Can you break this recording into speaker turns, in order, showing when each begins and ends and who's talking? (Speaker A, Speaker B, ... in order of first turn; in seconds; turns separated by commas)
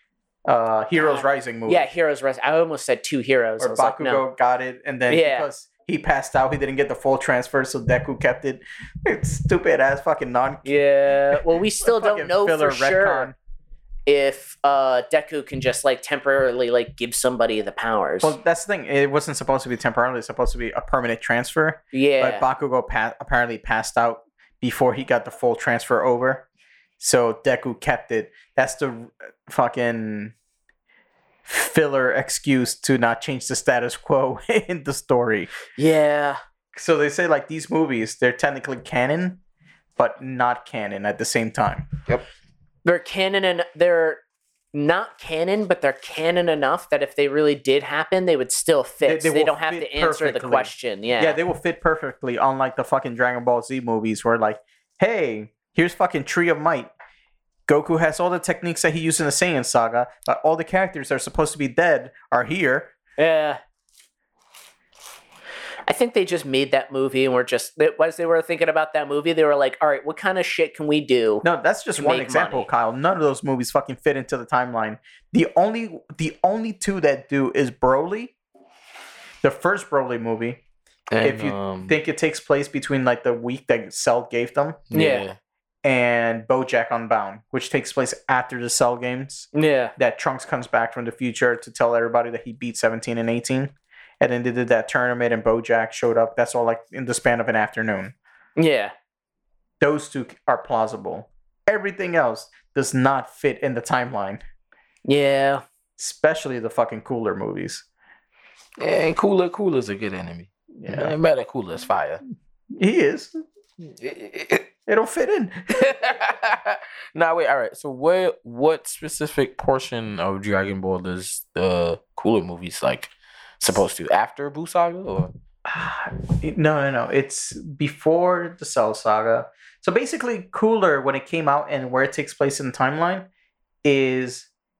Speaker A: 0.5-1.9, Speaker B: 1.0-4.2, Speaker A: 3.6-10.7, Speaker B: 5.1-5.5, Speaker B: 10.6-13.3, Speaker A: 11.3-13.3, Speaker B: 14.1-18.4, Speaker A: 18.2-26.4, Speaker B: 21.9-22.4, Speaker A: 27.0-30.3, Speaker A: 31.4-35.5, Speaker B: 35.7-36.4, Speaker A: 36.7-39.4, Speaker A: 40.0-41.9, Speaker B: 42.8-44.2, Speaker B: 44.7-51.4, Speaker A: 49.0-56.9, Speaker A: 57.7-62.9, Speaker B: 63.2-63.6, Speaker B: 65.8-71.4, Speaker A: 71.4-78.3, Speaker B: 72.0-72.7, Speaker A: 79.4-80.6, Speaker C: 81.1-81.9, Speaker A: 81.2-84.8, Speaker C: 84.9-85.3, Speaker B: 84.9-85.2, Speaker A: 85.8-98.1, Speaker B: 89.5-89.9, Speaker B: 98.6-98.9, Speaker A: 99.8-104.4, Speaker B: 105.0-105.6, Speaker A: 106.0-107.8, Speaker C: 108.8-112.2, Speaker A: 110.8-111.1, Speaker A: 112.7-113.4, Speaker C: 113.8-114.7, Speaker A: 114.9-116.0, Speaker C: 115.7-125.3, Speaker A: 125.7-133.3, Speaker A: 133.8-134.5